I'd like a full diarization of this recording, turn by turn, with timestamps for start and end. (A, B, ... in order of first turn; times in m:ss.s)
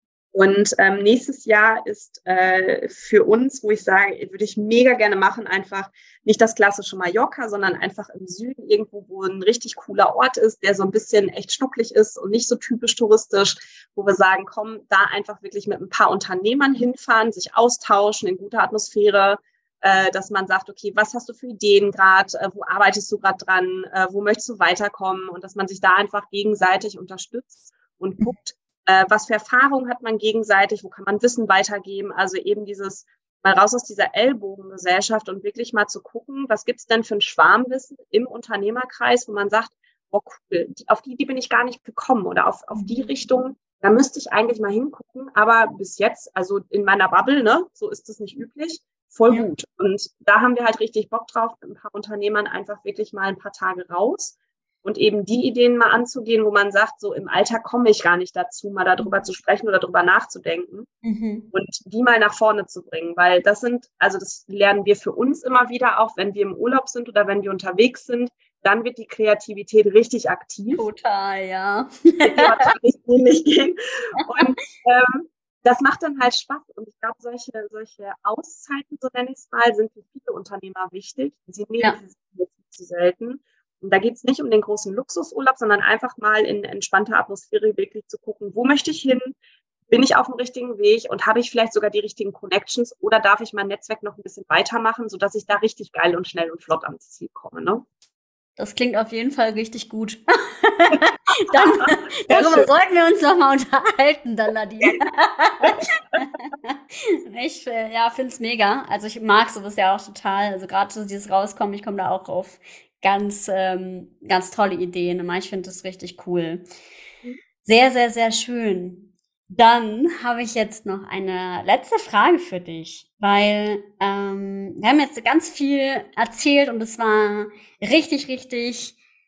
0:00.3-1:00.9 A
0:42.7-0:43.1 B
1:01.0-1:01.5 B
1:01.5-1:10.8 A
1:10.7-1:12.7 B
1:12.2-1:29.4 A
1:14.2-1:14.6 B
1:29.9-1:37.8 A
1:38.6-1:46.8 B
1:41.5-1:42.7 A
1:47.3-1:56.6 B
1:57.6-2:09.0 B